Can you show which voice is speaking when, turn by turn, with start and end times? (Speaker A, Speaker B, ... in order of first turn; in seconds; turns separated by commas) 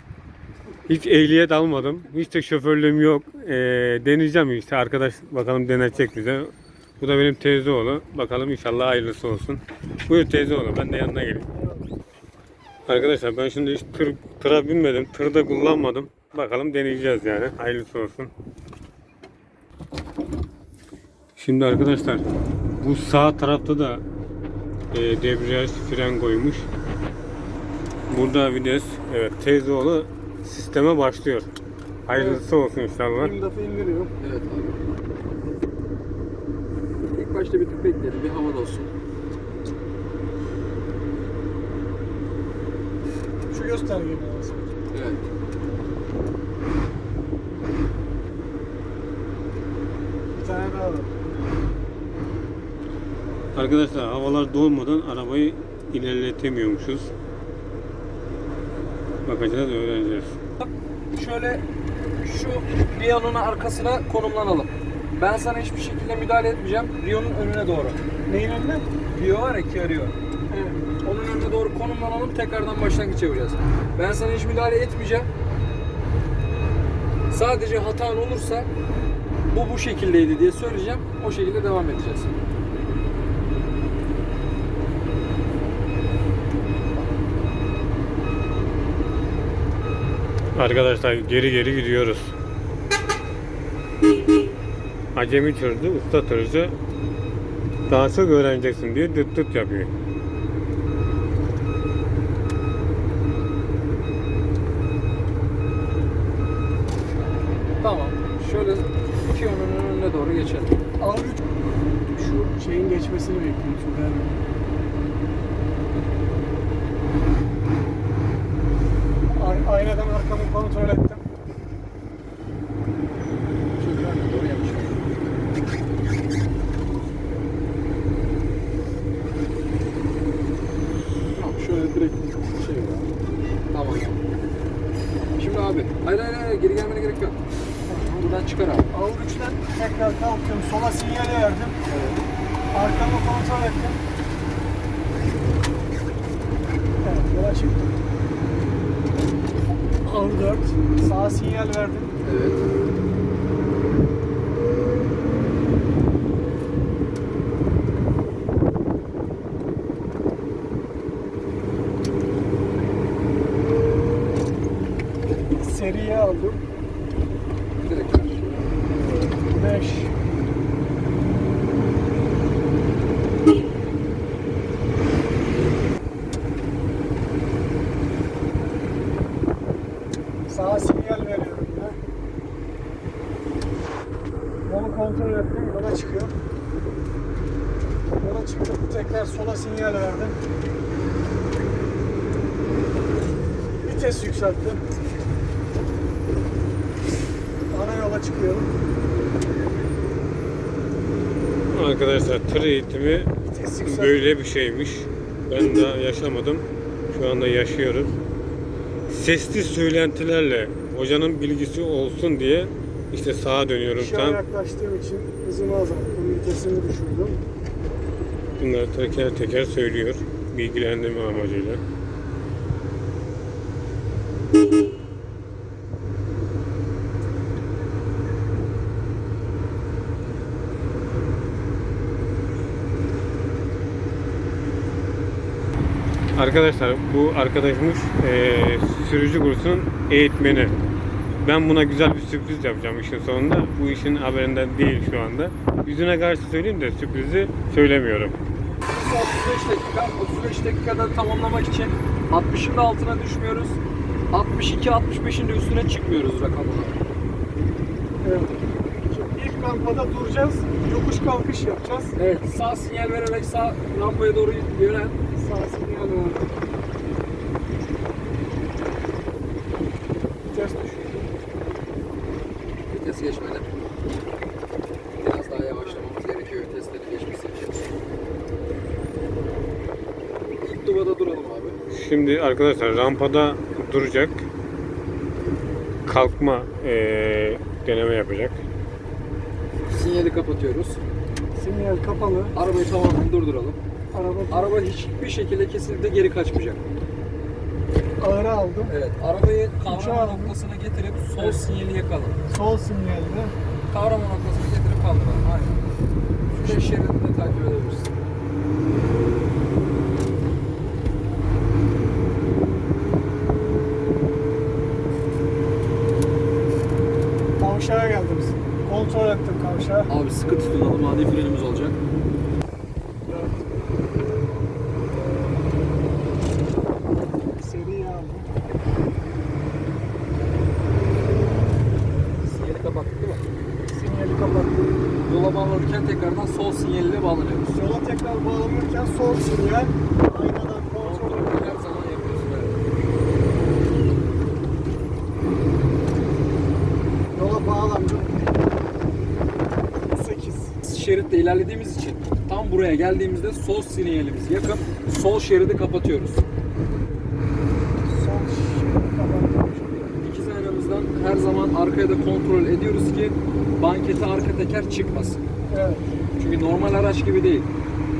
Speaker A: 0.9-11.5, Speaker A: 12.9-18.3, Speaker A: 21.4-22.2, Speaker A: 22.8-24.0, Speaker A: 24.9-26.7, Speaker A: 28.1-31.5, Speaker A: 32.1-33.3, Speaker B: 32.1-32.4, Speaker B: 33.2-34.1, Speaker C: 34.2-34.8, Speaker C: 37.1-38.9, Speaker B: 43.5-44.7, Speaker C: 44.9-45.3, Speaker B: 50.3-51.1, Speaker A: 53.5-57.1, Speaker A: 59.3-60.4, Speaker C: 60.6-61.6, Speaker C: 62.2-68.0, Speaker B: 68.3-68.9, Speaker C: 69.1-70.1, Speaker B: 70.5-70.8, Speaker C: 71.0-75.3, Speaker C: 77.3-78.7, Speaker C: 79.5-82.4, Speaker A: 90.5-92.3, Speaker A: 95.2-96.8, Speaker A: 97.9-99.9, Speaker C: 107.8-110.8, Speaker B: 111.0-111.4, Speaker B: 112.1-114.4, Speaker B: 119.3-121.2, Speaker C: 123.8-125.2, Speaker C: 131.4-133.1, Speaker C: 133.7-134.2, Speaker C: 135.4-137.4, Speaker C: 137.9-138.9, Speaker B: 138.9-141.8, Speaker C: 141.9-142.2, Speaker B: 142.7-144.0, Speaker B: 147.0-148.0, Speaker B: 150.0-152.1, Speaker C: 152.2-152.6, Speaker B: 165.6-166.6, Speaker C: 167.8-168.7, Speaker B: 169.5-170.2, Speaker B: 180.5-182.0, Speaker B: 184.7-186.3, Speaker B: 188.2-190.4, Speaker B: 193.8-194.8, Speaker B: 197.7-198.7, Speaker A: 201.7-203.3, Speaker B: 203.5-204.2, Speaker A: 203.8-208.1, Speaker A: 209.1-214.4, Speaker B: 213.9-217.4, Speaker A: 218.6-221.8, Speaker A: 236.3-240.8, Speaker A: 241.4-248.4, Speaker C: 248.9-253.8, Speaker C: 254.3-257.0, Speaker B: 258.2-262.1, Speaker C: 262.2-265.1, Speaker B: 265.4-266.4, Speaker B: 270.5-271.3, Speaker C: 272.9-273.7, Speaker C: 275.2-277.9, Speaker C: 280.6-281.8, Speaker A: 281.9-284.5, Speaker A: 286.1-288.6, Speaker C: 289.9-291.0, Speaker B: 291.6-292.6, Speaker C: 292.5-293.8, Speaker B: 294.1-294.8, Speaker C: 294.5-296.8, Speaker B: 298.2-298.9, Speaker C: 298.9-302.4, Speaker B: 299.9-300.6, Speaker B: 302.5-303.5, Speaker C: 303.9-305.8, Speaker C: 306.5-308.2, Speaker B: 306.6-306.9, Speaker B: 317.6-320.1, Speaker C: 320.1-322.0, Speaker B: 323.3-323.6, Speaker B: 327.6-328.5, Speaker C: 332.4-333.4, Speaker B: 333.9-335.0, Speaker C: 335.2-337.8, Speaker B: 337.7-341.7, Speaker C: 341.0-342.8, Speaker B: 347.3-348.4, Speaker B: 350.1-350.8, Speaker C: 350.8-356.4, Speaker B: 358.1-360.1, Speaker C: 360.2-365.4, Speaker B: 365.7-366.1, Speaker C: 366.4-367.7